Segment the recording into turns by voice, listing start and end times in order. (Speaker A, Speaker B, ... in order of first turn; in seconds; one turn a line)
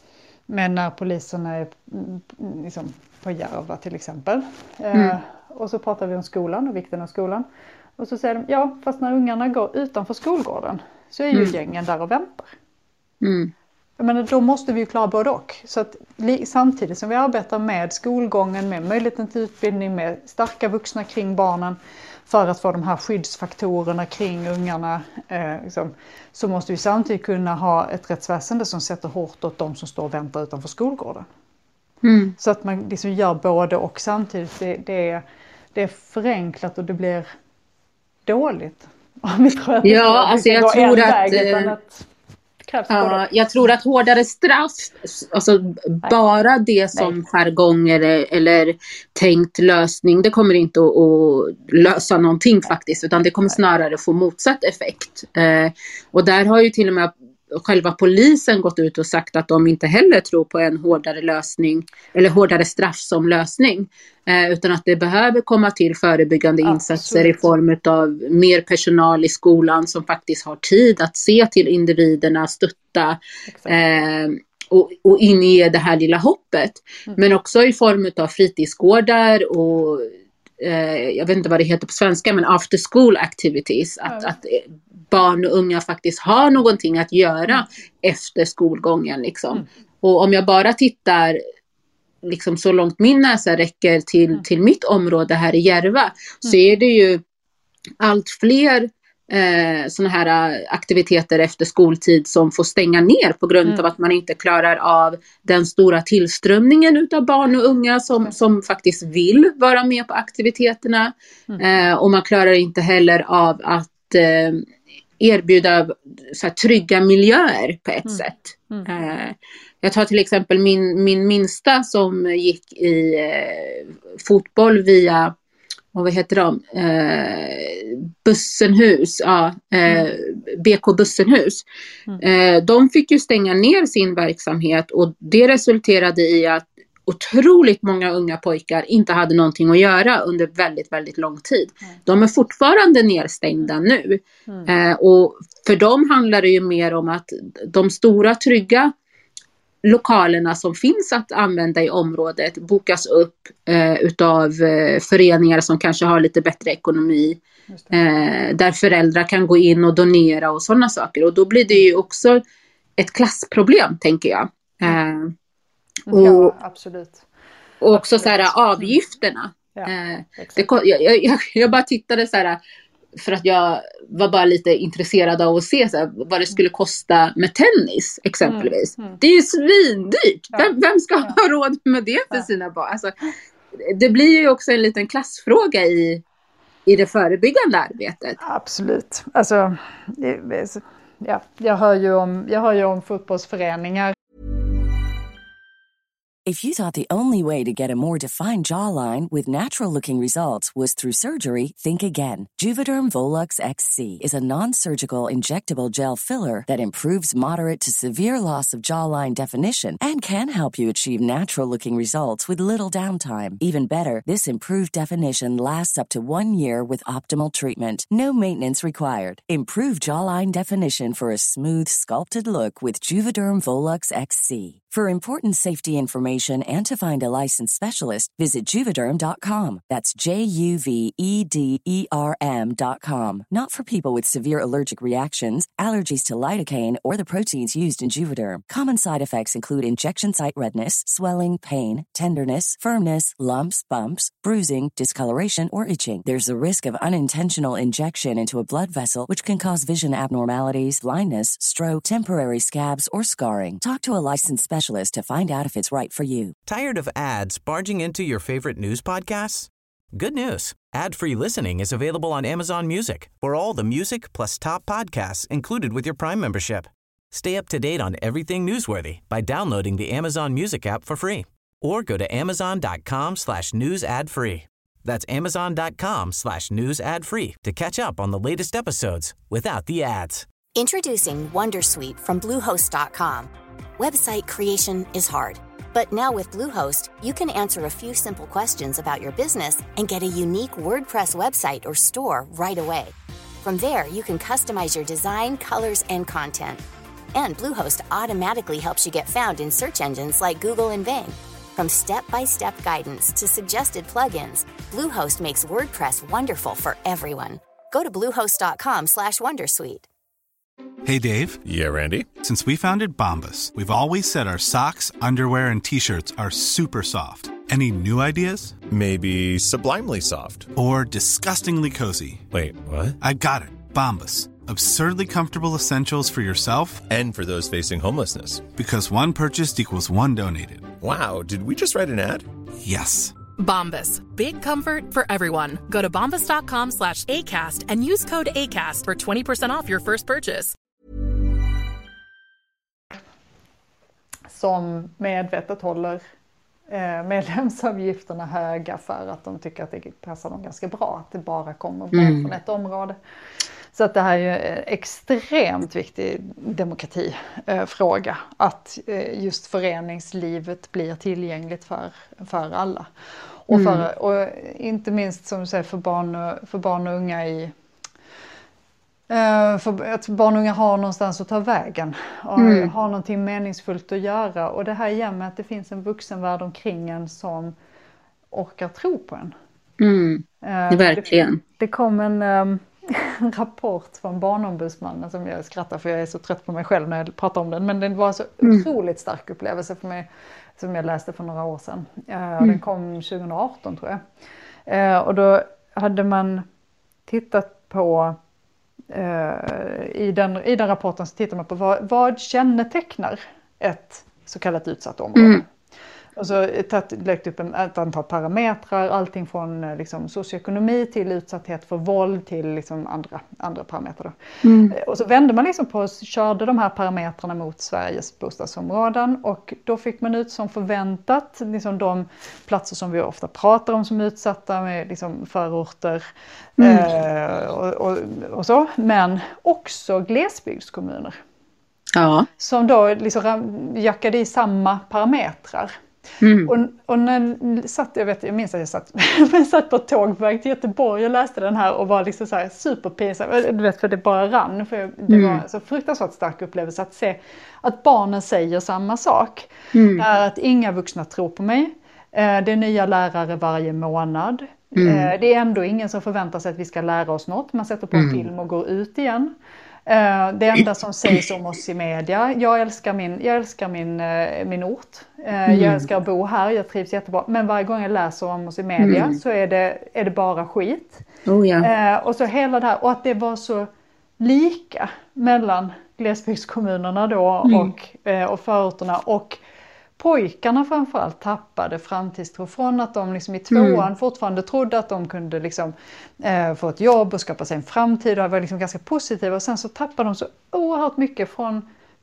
Speaker A: 0.5-7.4
Speaker A: 8.0-12.5
Speaker B: 13.2-13.5
Speaker A: 14.0-21.8
Speaker A: 22.3-31.3
Speaker B: 32.0-32.4
Speaker A: 32.4-35.2
Speaker A: 35.7-37.3
Speaker A: 38.2-42.0
Speaker B: 39.8-41.7
Speaker A: 42.6-43.2
Speaker B: 42.9-80.1
Speaker A: 66.6-67.5
Speaker A: 73.5-73.8
Speaker B: 80.6-91.4
Speaker A: 84.0-84.3
Speaker B: 92.2-97.2
Speaker B: 98.0-114.7
Speaker B: 115.2-125.3
Speaker A: 118.0-118.9
Speaker B: 125.9-131.7
Speaker B: 132.2-148.9
Speaker B: 149.8-157.4
Speaker A: 157.7-157.9
Speaker B: 157.9-162.4
Speaker B: 163.0-165.3
Speaker A: 166.1-167.2
Speaker B: 166.1-166.5
Speaker B: 167.8-172.6
Speaker A: 167.9-168.9
Speaker A: 169.7-170.7
Speaker B: 173.2-183.1
Speaker A: 178.4-179.2
Speaker B: 183.7-186.2
Speaker B: 186.8-188.4
Speaker A: 188.4-194.1
Speaker C: 196.4-256.5
Speaker D: 256.6-280.4
Speaker E: 280.7-296.8
Speaker E: 297.3-310.1
Speaker F: 311.0-311.6
Speaker G: 311.6-312.3
Speaker F: 312.4-318.8
Speaker G: 318.9-320.7
Speaker F: 320.7-322.4
Speaker G: 322.5-323.2
Speaker F: 323.2-327.1
Speaker G: 327.1-328.7
Speaker F: 328.7-331.0
Speaker G: 331.0-332.5
Speaker F: 332.8-333.3
Speaker H: 333.6-340.7
Speaker A: 344.5-346.2
Speaker A: 346.9-353.2
Speaker B: 352.1-352.5
Speaker A: 353.9-363.1
Speaker A: 363.7-367.7
Speaker B: 363.7-364.1
Speaker A: 369.3-377.7
Speaker B: 372.6-372.9
Speaker A: 378.5-379.5
Speaker B: 380.0-381.6
Speaker A: 380.6-390.3
Speaker A: 390.8-394.2
Speaker A: 394.9-396.6
Speaker A: 397.3-398.4
Speaker A: 399.1-405.7
Speaker B: 405.4-405.6
Speaker A: 406.4-414.4
Speaker B: 414.6-414.9
Speaker A: 414.9-426.2
Speaker B: 426.8-427.1
Speaker A: 426.8-431.4
Speaker B: 432.1-432.5
Speaker A: 432.6-435.9
Speaker B: 436.4-436.7
Speaker A: 436.6-459.5
Speaker B: 445.3-445.6
Speaker B: 449.9-450.2
Speaker B: 454.9-455.3
Speaker B: 458.1-458.4
Speaker A: 460.1-471.2
Speaker B: 465.7-466.1
Speaker B: 469.0-469.4
Speaker B: 471.4-471.9
Speaker A: 471.8-479.6
Speaker B: 477.6-477.9
Speaker A: 480.2-491.9
Speaker B: 483.7-484.0